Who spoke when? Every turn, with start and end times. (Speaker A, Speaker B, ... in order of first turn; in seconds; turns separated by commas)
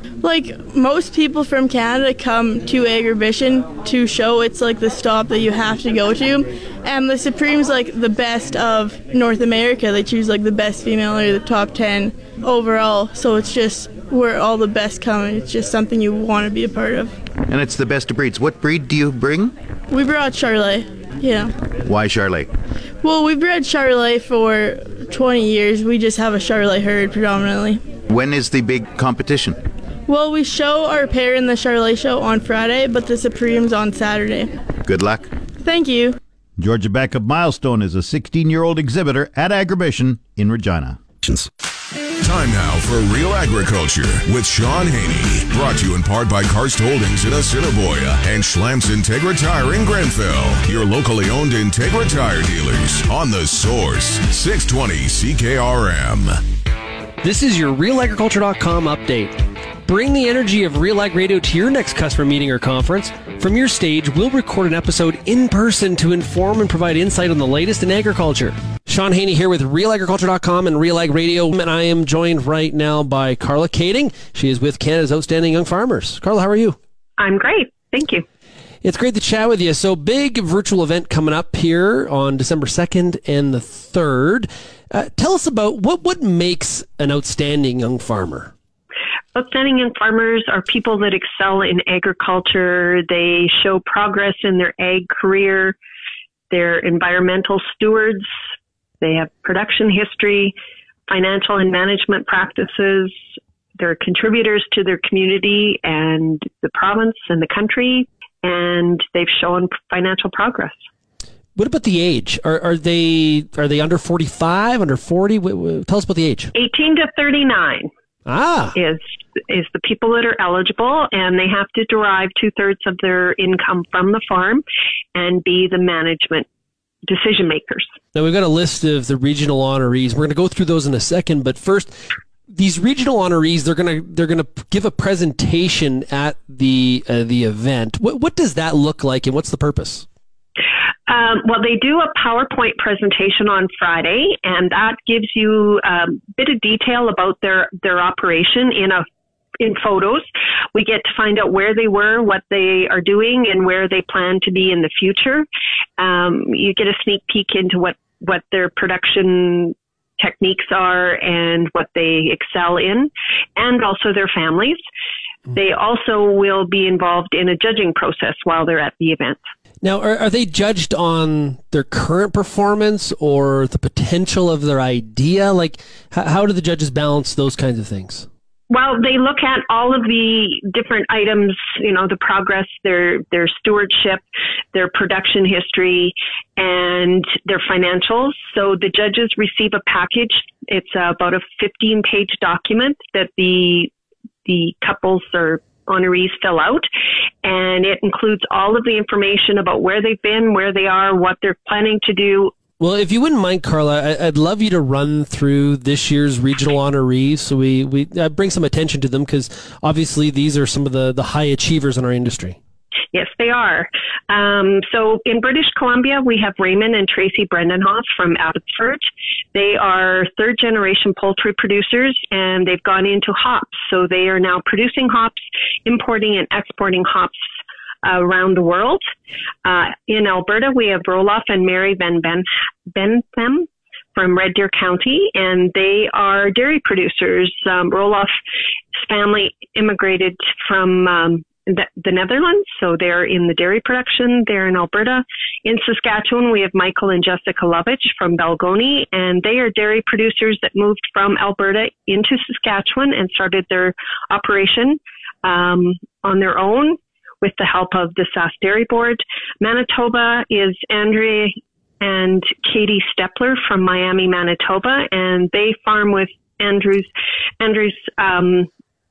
Speaker A: 0.2-17.1, Speaker B: 17.5-19.5, Speaker A: 19.9-21.5, Speaker B: 21.9-22.5, Speaker A: 23.0-27.8, Speaker B: 28.1-29.6, Speaker A: 30.1-34.5, Speaker B: 34.9-35.3, Speaker A: 35.6-36.2, Speaker B: 36.6-41.5, Speaker C: 42.2-56.4, Speaker D: 57.2-76.8, Speaker E: 77.2-78.2, Speaker D: 78.8-88.5, Speaker E: 89.3-95.8, Speaker E: 96.5-98.3, Speaker E: 99.0-100.6, Speaker E: 101.1-103.2, Speaker E: 103.8-110.8, Speaker D: 111.6-116.5, Speaker E: 116.5-117.9, Speaker D: 118.3-118.8, Speaker E: 118.8-126.5, Speaker E: 127.1-127.9, Speaker D: 128.1-140.1, Speaker E: 141.1-149.0, Speaker E: 149.6-155.5, Speaker E: 156.0-164.8, Speaker E: 165.5-169.4, Speaker D: 169.8-178.3, Speaker E: 178.7-193.9, Speaker E: 194.4-196.9, Speaker E: 197.4-202.5, Speaker D: 202.8-212.6, Speaker E: 213.1-227.4, Speaker E: 228.0-229.1, Speaker E: 229.7-238.3, Speaker E: 239.0-268.7